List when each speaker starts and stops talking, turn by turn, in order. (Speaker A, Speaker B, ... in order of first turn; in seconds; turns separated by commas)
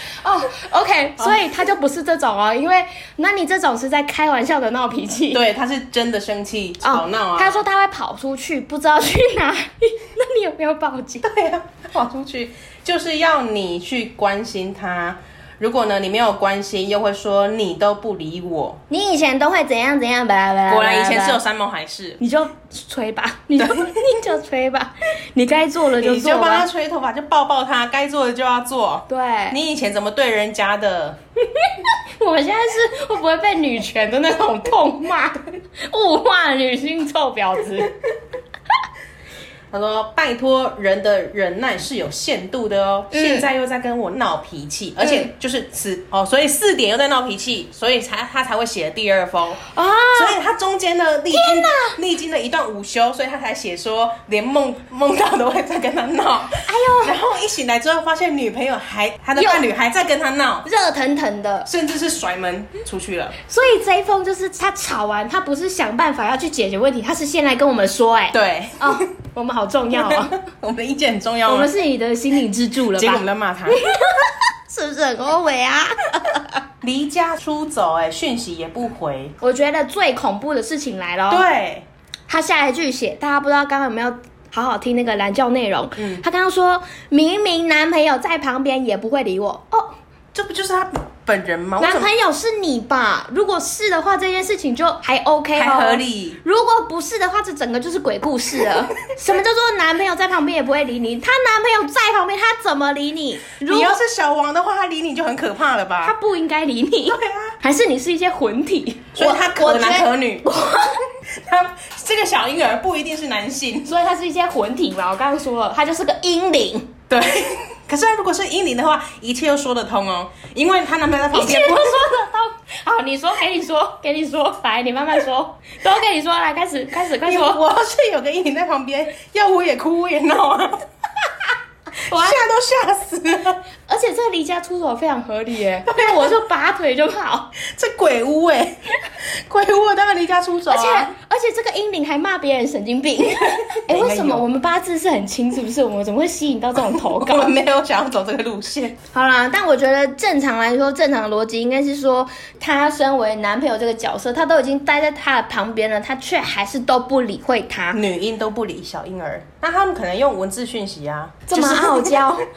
Speaker A: 0.2-5.4, Speaker B: 5.3-7.6, Speaker A: 6.8-11.2, Speaker B: 11.2-18.8, Speaker A: 18.9-21.4, Speaker B: 20.7-22.2, Speaker A: 22.2-26.7, Speaker B: 23.6-24.0, Speaker B: 25.9-31.2, Speaker A: 29.1-29.6, Speaker A: 31.5-38.0, Speaker B: 39.7-60.6, Speaker A: 43.1-43.5, Speaker A: 45.0-45.3, Speaker A: 49.7-50.4, Speaker A: 51.3-51.9, Speaker A: 56.6-57.2, Speaker A: 59.4-59.7, Speaker A: 60.6-61.7, Speaker B: 61.6-63.3, Speaker A: 63.4-70.3, Speaker B: 68.3-69.0, Speaker B: 69.9-71.7, Speaker A: 71.5-76.5, Speaker B: 72.9-73.8, Speaker B: 76.8-79.3, Speaker A: 79.4-81.4, Speaker B: 81.3-81.8, Speaker A: 82.3-89.9, Speaker B: 86.0-86.2, Speaker B: 90.3-92.1, Speaker A: 91.8-104.0, Speaker B: 95.5-96.4, Speaker B: 103.6-106.1, Speaker A: 106.0-111.0, Speaker B: 107.1-107.5, Speaker B: 109.1-110.5, Speaker B: 111.3-113.9, Speaker A: 113.8-116.9, Speaker B: 117.1-122.0, Speaker A: 121.3-127.6, Speaker B: 127.2-130.8, Speaker B: 132.1-133.6, Speaker A: 132.1-132.4, Speaker A: 133.9-137.5, Speaker B: 135.9-136.3, Speaker B: 137.7-141.1, Speaker A: 140.7-147.6, Speaker B: 143.6-144.4, Speaker B: 146.8-149.0, Speaker A: 149.1-158.0, Speaker B: 157.9-162.2, Speaker A: 161.5-162.5